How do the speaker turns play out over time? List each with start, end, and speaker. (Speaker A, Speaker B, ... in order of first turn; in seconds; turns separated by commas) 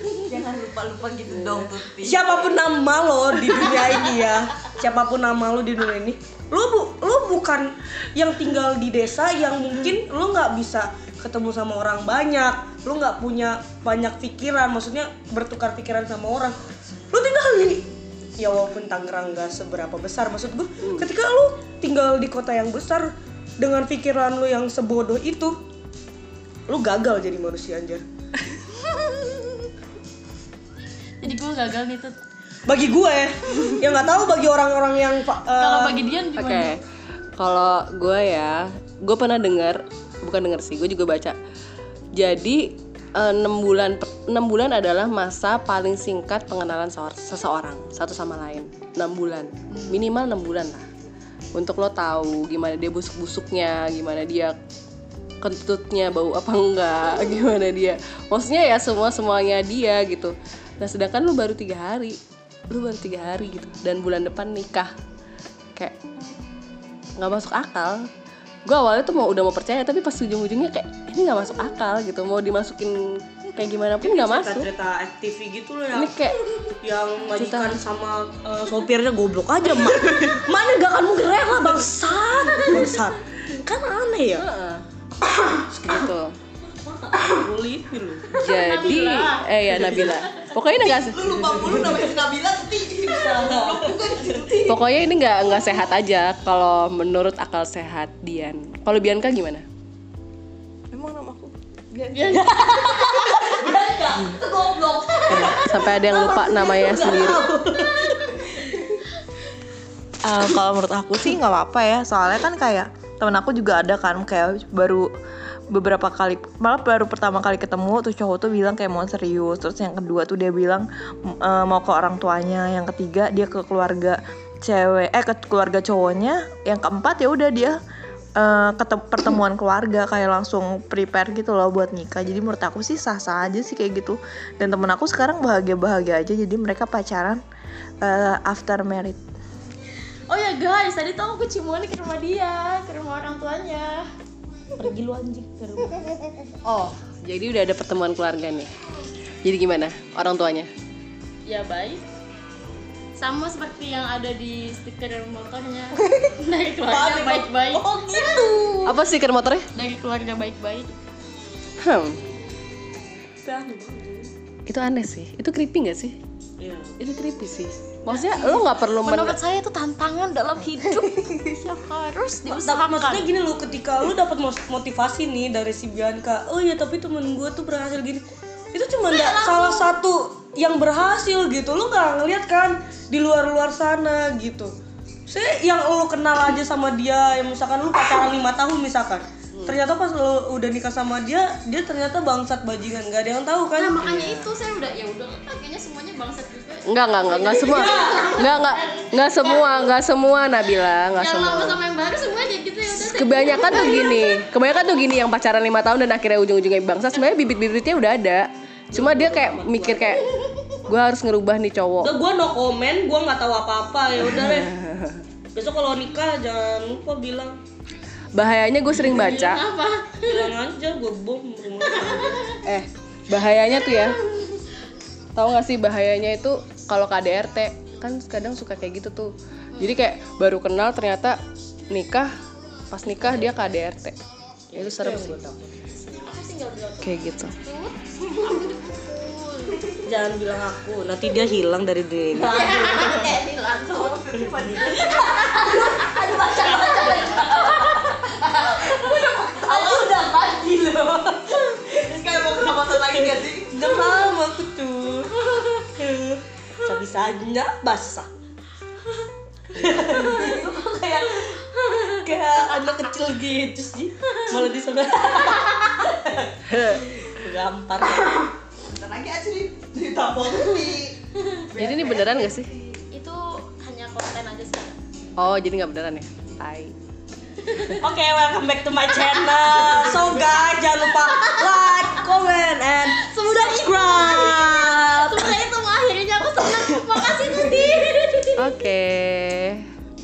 Speaker A: 0.2-2.6, Speaker B: 2.0-16.6, Speaker B: 17.1-25.6, Speaker B: 26.7-28.0, Speaker C: 31.2-32.1, Speaker B: 32.7-36.1, Speaker C: 35.6-36.7, Speaker D: 36.4-36.8, Speaker D: 37.4-41.4, Speaker D: 42.1-50.9, Speaker D: 51.5-54.5, Speaker D: 55.4-62.2, Speaker D: 62.7-64.9, Speaker D: 67.2-68.0, Speaker D: 68.7-74.7, Speaker B: 74.0-84.4, Speaker D: 76.0-76.4, Speaker D: 77.4-77.8, Speaker D: 84.4-84.8, Speaker D: 85.7-86.3, Speaker B: 86.6-88.4, Speaker D: 88.3-91.2, Speaker C: 88.4-89.5, Speaker A: 90.8-94.8, Speaker B: 91.3-92.1, Speaker B: 93.1-94.4, Speaker D: 94.7-99.7, Speaker E: 100.9-101.5, Speaker A: 102.0-102.5, Speaker C: 102.1-103.5, Speaker B: 102.3-103.5, Speaker A: 103.0-108.9, Speaker D: 105.3-107.5, Speaker B: 107.0-108.0, Speaker E: 110.2-115.1, Speaker E: 115.7-127.8, Speaker E: 128.4-137.4, Speaker E: 138.0-139.2, Speaker C: 140.3-144.1, Speaker B: 144.8-146.1, Speaker D: 146.7-148.7, Speaker D: 149.4-150.7, Speaker C: 151.5-152.0, Speaker C: 153.2-157.8, Speaker B: 156.9-158.9, Speaker A: 158.1-158.9, Speaker D: 158.8-159.7, Speaker C: 159.8-160.9, Speaker D: 161.8-162.2, Speaker B: 163.4-164.3, Speaker D: 164.7-166.2, Speaker B: 166.6-167.0, Speaker D: 167.0-169.4, Speaker C: 168.1-173.3, Speaker B: 172.5-184.7, Speaker C: 179.1-179.9, Speaker B: 185.3-194.0, Speaker C: 193.8-199.9, Speaker D: 194.0-194.4, Speaker D: 196.9-201.8, Speaker B: 197.5-198.5, Speaker C: 201.2-204.4, Speaker D: 202.9-210.2, Speaker B: 208.9-210.2, Speaker D: 210.8-212.1, Speaker B: 212.0-214.7, Speaker D: 214.3-215.2, Speaker B: 215.6-217.6, Speaker D: 218.3-219.6, Speaker C: 219.0-220.5, Speaker B: 220.2-222.4, Speaker C: 222.1-222.6, Speaker D: 222.6-224.2, Speaker D: 225.4-231.4, Speaker C: 229.7-230.0, Speaker D: 231.9-232.3, Speaker D: 232.9-234.2, Speaker B: 234.7-235.9, Speaker D: 234.7-235.4, Speaker C: 236.0-239.8, Speaker D: 237.0-237.5, Speaker B: 240.0-243.0, Speaker A: 242.4-247.4, Speaker C: 242.5-244.1, Speaker B: 245.0-248.1, Speaker C: 245.2-245.9, Speaker C: 246.5-248.3, Speaker A: 248.4-250.6, Speaker C: 248.8-249.2, Speaker B: 249.6-252.0, Speaker A: 251.8-253.7, Speaker B: 253.2-258.3, Speaker B: 259.7-268.5, Speaker A: 260.2-260.7, Speaker D: 266.7-267.1, Speaker A: 268.9-273.0, Speaker D: 271.8-272.7, Speaker C: 273.1-275.0, Speaker D: 275.4-276.9, Speaker B: 278.0-285.6, Speaker C: 283.1-288.8, Speaker A: 287.4-287.9, Speaker D: 288.6-289.9